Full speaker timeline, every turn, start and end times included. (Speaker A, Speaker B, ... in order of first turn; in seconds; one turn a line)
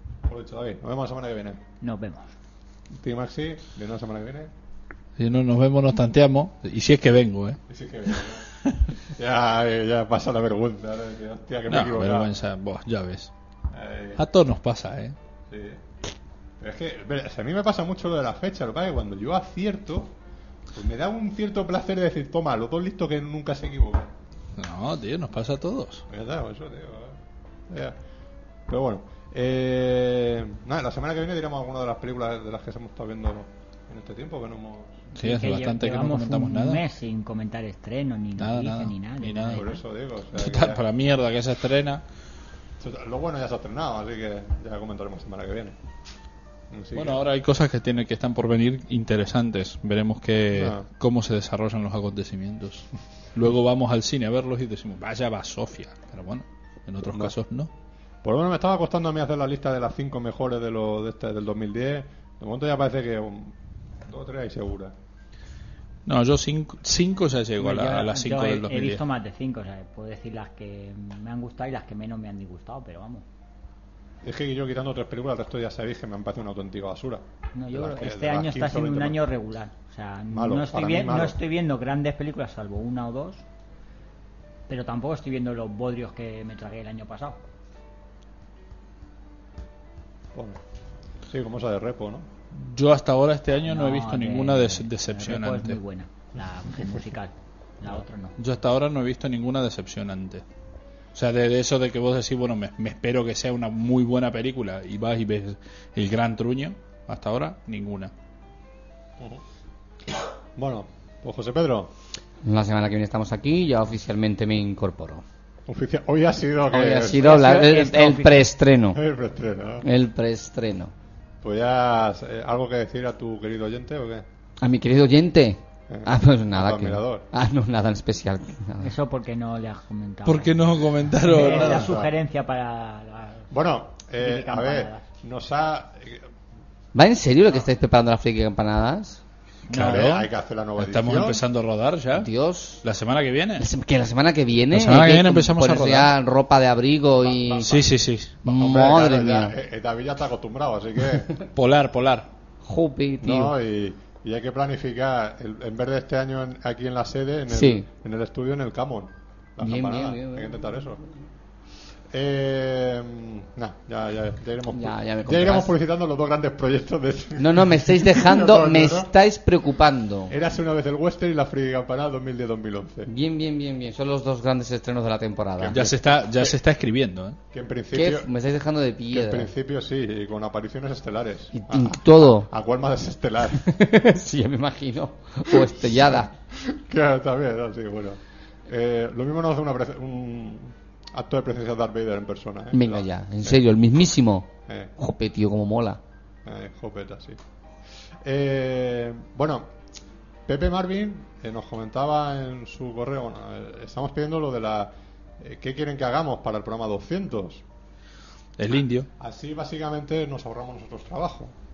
Speaker A: 0.2-1.6
Speaker B: 1.8-2.3
Speaker A: 2.9-4.5
Speaker C: 5.2-7.6
Speaker A: 7.7-8.5
Speaker A: 9.1-12.3
Speaker C: 11.7-13.3
Speaker A: 13.7-14.2
Speaker C: 14.2-15.1
Speaker A: 15.5-15.8
Speaker A: 16.6-20.1
Speaker A: 20.7-24.1
Speaker C: 24.6-26.1
Speaker A: 26.1-28.0
Speaker A: 28.7-35.0
Speaker C: 35.1-36.8
Speaker B: 35.2-39.8
Speaker C: 38.4-39.6
Speaker A: 39.5-40.8
Speaker C: 40.3-42.0
Speaker A: 42.8-45.8
Speaker A: 46.7-47.2
Speaker C: 46.9-57.7
Speaker A: 50.5-50.8
Speaker A: 57.0-57.3
Speaker A: 58.2-64.9
Speaker C: 66.0-69.0
Speaker B: 67.6-73.2
Speaker A: 74.2-79.2
Speaker B: 77.5-83.4
Speaker A: 80.3-81.4
Speaker B: 84.7-87.4
Speaker A: 90.3-90.6
Speaker A: 91.3-92.3
Speaker C: 92.5-95.8
Speaker B: 93.7-98.3
Speaker C: 98.4-100.4
Speaker C: 101.1-108.1
Speaker A: 109.2-109.4
Speaker A: 110.5-111.9
Speaker D: 112.4-115.2
Speaker A: 115.7-117.6
Speaker D: 116.7-119.0
Speaker B: 117.2-118.5
Speaker A: 118.9-119.9
Speaker D: 119.8-120.9
Speaker A: 121.4-124.2
Speaker D: 124.6-128.9
Speaker A: 125.9-127.3
Speaker B: 128.8-133.5
Speaker C: 130.3-131.9
Speaker A: 131.3-132.1
Speaker A: 133.5-136.3
Speaker B: 134.2-135.0
Speaker D: 136.9-139.2
Speaker C: 139.7-143.7
Speaker A: 139.7-141.4
Speaker D: 142.1-142.8
Speaker D: 143.6-147.8
Speaker C: 144.7-146.2
Speaker A: 147.2-147.9
Speaker C: 147.6-148.4
Speaker D: 148.4-149.6
Speaker A: 148.4-151.3
Speaker C: 151.5-152.3
Speaker D: 152.6-153.5
Speaker A: 153.2-161.0
Speaker D: 157.5-157.9
Speaker D: 159.6-160.5
Speaker A: 162.1-169.1
Speaker D: 164.7-165.7
Speaker D: 167.4-170.3
Speaker A: 170.3-173.1
Speaker D: 173.1-175.9
Speaker A: 175.6-176.6
Speaker C: 175.7-177.4
Speaker A: 177.5-178.3
Speaker D: 177.9-179.5
Speaker A: 179.1-183.7
Speaker D: 181.5-182.5
Speaker D: 183.6-186.3
Speaker A: 185.5-193.7
Speaker D: 192.7-196.0
Speaker A: 194.7-194.9
Speaker A: 196.4-197.4
Speaker A: 198.1-199.7
Speaker A: 200.4-207.6
Speaker C: 208.6-209.1
Speaker A: 209.2-211.6